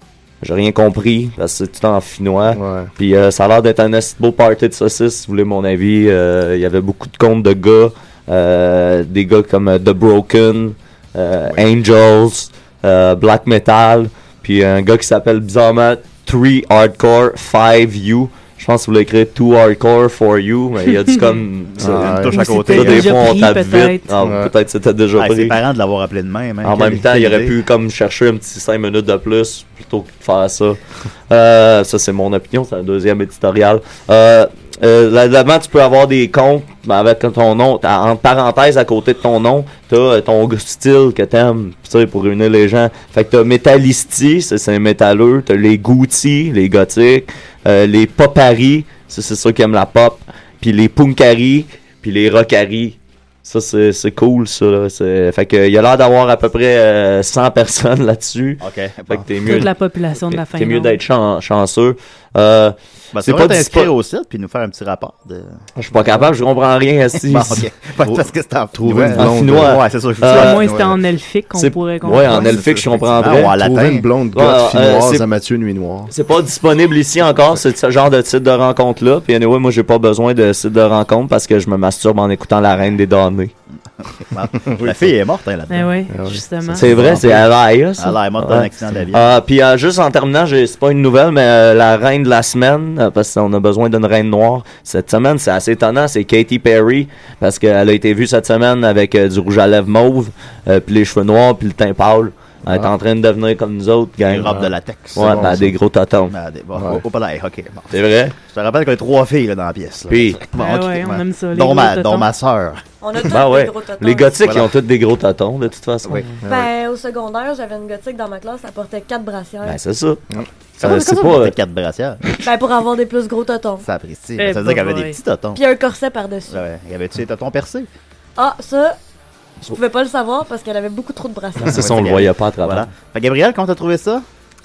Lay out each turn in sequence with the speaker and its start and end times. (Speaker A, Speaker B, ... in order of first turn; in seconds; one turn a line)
Speaker A: 0.4-25.6
Speaker B: 2.5-2.9
Speaker C: 21.8-23.6
Speaker B: 21.8-22.4
Speaker D: 22.3-24.1
Speaker B: 24.2-24.5
Speaker C: 25.2-27.6
Speaker A: 26.6-63.9
Speaker C: 58.6-59.7
Speaker D: 59.4-61.0
Speaker C: 63.1-65.6
Speaker A: 65.8-67.7
Speaker C: 67.1-71.0
Speaker B: 68.7-69.8
Speaker A: 69.1-70.7
Speaker D: 70.2-72.6
Speaker A: 71.5-73.6
Speaker C: 72.2-74.1
Speaker B: 73.4-76.1
Speaker A: 74.3-75.3
Speaker A: 76.1-83.5
Speaker C: 84.2-86.0
Speaker B: 84.7-85.0
Speaker D: 85.7-87.2
Speaker B: 86.1-87.0
Speaker A: 86.7-104.6
Speaker C: 86.8-89.3
Speaker C: 104.2-105.5
Speaker B: 104.5-105.8
Speaker A: 105.2-106.3
Speaker C: 106.3-112.8
Speaker B: 106.8-107.0
Speaker A: 107.9-108.3
Speaker A: 110.1-110.5
Speaker D: 110.5-112.3
Speaker E: 113.0-114.5
Speaker A: 113.3-116.3
Speaker C: 114.4-114.7
Speaker C: 116.0-116.3
Speaker B: 116.4-116.7
Speaker E: 116.4-119.8
Speaker A: 119.6-120.2
Speaker C: 120.8-122.2
Speaker A: 120.8-121.6
Speaker E: 122.4-123.9
Speaker C: 123.8-125.6
Speaker D: 124.4-125.2
Speaker E: 125.5-126.6
Speaker C: 126.5-127.9
Speaker E: 128.4-129.0
Speaker E: 129.7-131.8
Speaker C: 131.6-134.2
Speaker A: 131.6-132.9